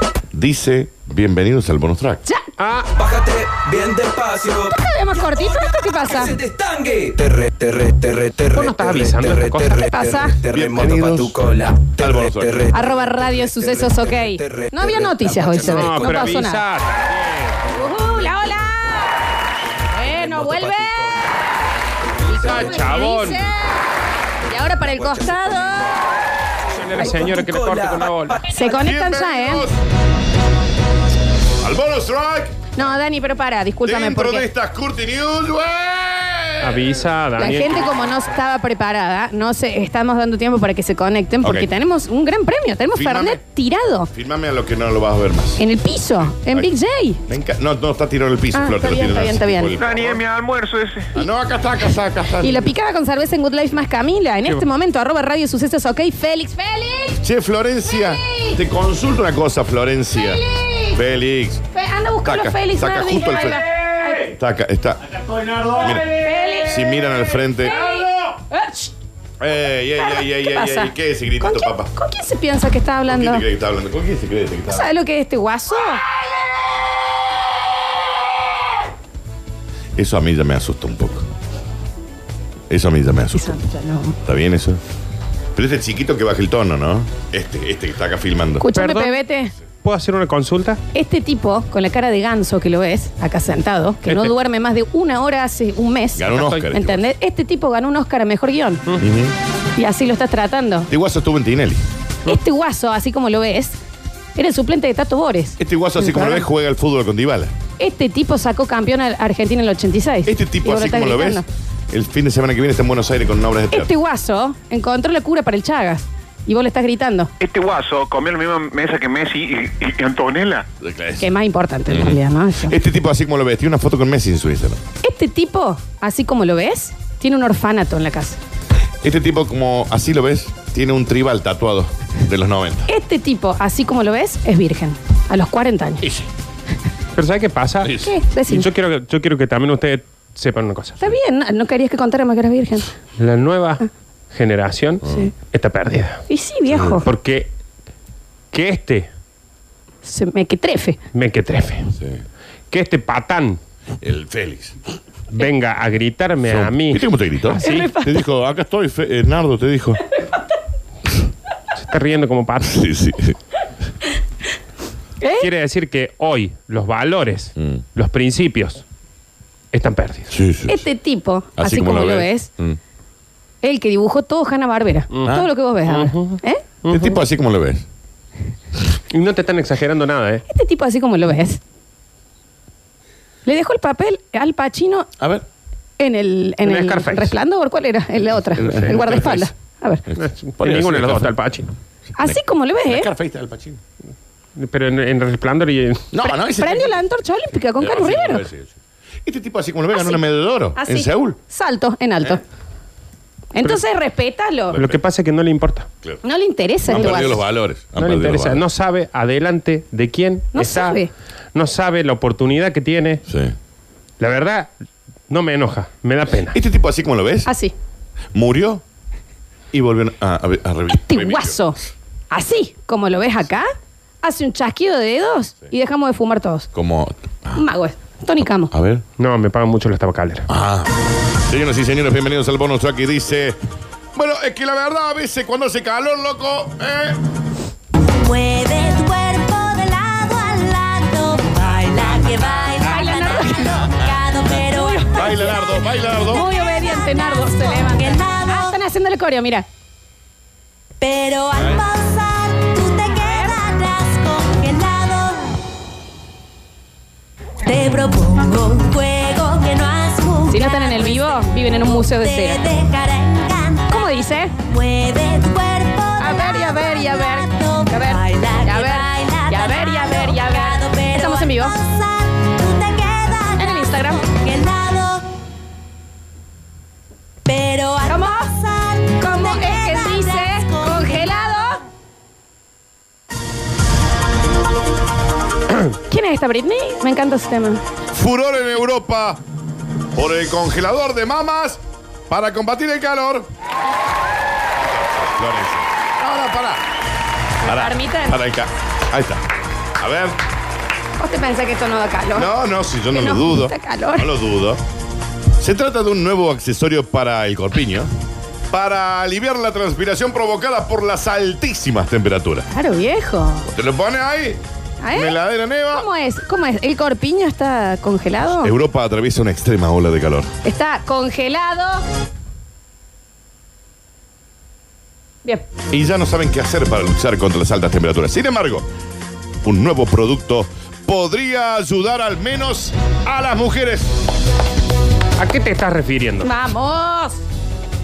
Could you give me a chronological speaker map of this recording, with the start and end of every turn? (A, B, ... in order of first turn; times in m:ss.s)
0:00.3-0:02.2 A
0:02.6-0:02.9 B
0:03.0-0:04.7 C
0:04.7-0:06.4 D
0:05.3-0:16.1 C
0:08.4-0:09.8 B
0:09.9-0:10.4 D
0:10.5-0:11.4 A
0:11.9-0:12.6 A
0:12.7-0:16.6 D
0:15.6-0:17.6 B
0:17.7-0:19.3 D
0:19.8-0:21.2 D
0:20.0-0:21.2 C
0:22.2-0:23.0 C
0:22.2-0:23.8 D
0:22.3-0:23.5 B
0:24.4-0:26.2 D
0:25.1-0:25.5 C
0:26.7-0:28.4 B
0:27.2-0:28.4 C
0:28.4-0:29.7 D
0:28.6-0:29.7 A
0:31.6-0:32.7 A
0:32.7-0:34.5 D
0:33.8-0:36.9 A
0:36.6-0:37.9 B
0:37.4-0:44.1 D
0:41.4-0:41.7 A
0:42.9-0:43.4 A
0:44.1-0:45.6 A
0:45.6-0:47.2 D
0:46.2-0:46.7 A
0:47.3-0:50.2 A
0:48.5-0:49.8 D
0:49.8-0:51.1 E
0:51.2-0:52.7 A
0:52.4-0:57.2 D
0:57.2-1:01.6 A
0:57.9-0:58.6 D
1:00.1-1:01.0 D
1:01.7-1:04.3 D
1:02.2-1:03.6 A
1:04.3-1:07.8 A
1:06.1-1:08.9 D
1:09.4-1:11.9 A
1:10.0-1:13.4 D
1:13.1-1:14.9 A
1:14.7-1:16.0 D
1:20.0-1:21.3 A
1:22.7-1:23.6 A
1:23.3-1:24.2 D
1:24.2-1:24.8 A
1:25.5-1:28.6 A
1:28.6-1:29.5 D
1:28.7-1:29.2 B
1:29.8-1:30.8 B
1:30.9-1:38.8 D
1:34.1-1:34.3 B
1:36.2-1:37.0 A
1:36.3-1:36.7 B
1:39.0-1:39.3 A
1:39.8-1:40.9 D
1:40.9-1:41.8 A
1:42.2-1:43.8 D
1:44.4-1:46.5 D
1:45.6-1:47.5 A
1:47.8-1:51.4 D
1:50.2-1:53.9 A
1:53.7-1:57.3 D
1:57.4-2:00.7 E
2:00.8-2:01.3 A
2:01.2-2:02.8 D
2:01.9-2:04.8 A
2:05.0-2:08.4 D
2:09.0-2:12.9 A
2:12.9-2:16.1 D
2:16.0-2:16.3 A
2:17.1-2:21.1 B
2:18.0-2:18.7 D
2:21.0-2:22.9 D
2:23.2-2:26.2 B
2:25.0-2:25.3 A
2:26.3-2:27.1 D
2:27.0-2:27.5 B
2:28.5-2:29.1 B
2:30.0-2:31.0 D
2:31.1-2:31.9 B
2:32.0-2:32.2 A
2:32.7-2:33.6 B
2:34.0-2:34.8 A
2:35.3-2:37.0 B
2:36.4-2:40.0 A
2:37.6-2:37.9 B
2:37.6-2:38.2 D
2:41.8-2:42.8 B
2:42.6-2:43.4 A
2:45.2-2:45.5 D
2:45.4-2:48.8 B
2:47.6-2:47.8 A
2:49.7-2:50.3 B
2:50.3-2:50.8 A
2:50.7-2:52.5 D
2:51.6-2:52.8 A
2:53.6-2:56.6 D
2:55.1-2:57.2 B
2:56.9-2:57.8 A
2:59.1-3:00.4 B
3:00.5-3:01.6 D
3:03.4-3:05.1 D
3:05.2-3:05.4 A
3:06.0-3:10.0 D
3:06.6-3:07.4 B
3:08.6-3:09.5 A
3:08.6-3:09.3 B
3:10.1-3:11.3 A
3:10.2-3:11.7 B
3:12.2-3:13.1 D
3:12.9-3:13.8 A
3:14.6-3:16.0 B
3:16.1-3:17.1 A
3:16.2-3:18.4 D
3:17.8-3:21.4 A
3:19.9-3:20.2 D
3:20.8-3:22.4 D
3:23.5-3:24.8 D
3:24.7-3:25.0 A
3:24.7-3:25.9 B
3:26.2-3:27.4 D
3:26.9-3:28.6 A
3:28.0-3:31.0 B
3:30.5-3:31.1 D
3:31.5-3:33.2 B
3:33.3-3:33.5 A
3:34.2-3:34.7 B
3:35.3-3:36.5 B
3:36.5-3:37.5 A
3:37.4-3:37.7 D
3:38.3-3:38.8 A
3:39.7-3:41.7 A
3:40.9-3:41.8 D
3:42.3-3:43.7 D
3:44.2-3:46.7 D
3:46.7-3:47.6 A
3:47.5-3:48.7 D
3:48.7-3:49.0 A
3:49.2-3:50.4 B
3:50.5-3:53.6 A
3:54.1-3:57.2 A
3:58.1-4:05.3 F
4:02.8-4:03.9 D
4:04.7-4:09.6 D
4:05.1-4:06.5 A
4:07.6-4:08.8 F
4:11.0-4:15.6 F
4:13.2-4:13.5 D
4:17.6-4:35.3 F
4:20.5-4:22.6 D
4:23.9-4:24.5 D
4:26.2-4:31.8 D
4:33.6-4:34.3 D
4:37.4-4:41.4 F
4:38.0-4:38.5 D
4:39.2-4:41.8 D
4:46.1-4:47.8 D
4:48.1-4:49.4 A
4:50.1-4:53.5 A
4:54.8-4:56.8 A
4:57.6-4:59.4 A
4:57.6-4:58.4 D
5:00.0-5:00.4 A
5:01.2-5:02.5 D
5:02.3-5:04.8 A
5:03.1-5:04.3 D
5:05.6-5:08.1 A
5:08.7-5:12.7 A
5:12.7-5:13.7 D
5:13.7-5:14.6 A
5:15.0-5:15.4 D
5:15.1-5:16.0 A
5:15.9-5:18.7 D
5:18.5-5:20.5 A
5:20.6-5:22.0 D
5:25.9-5:28.8 A
5:29.6-5:34.1 A
5:35.4-5:36.5 B
5:36.4-5:37.4 D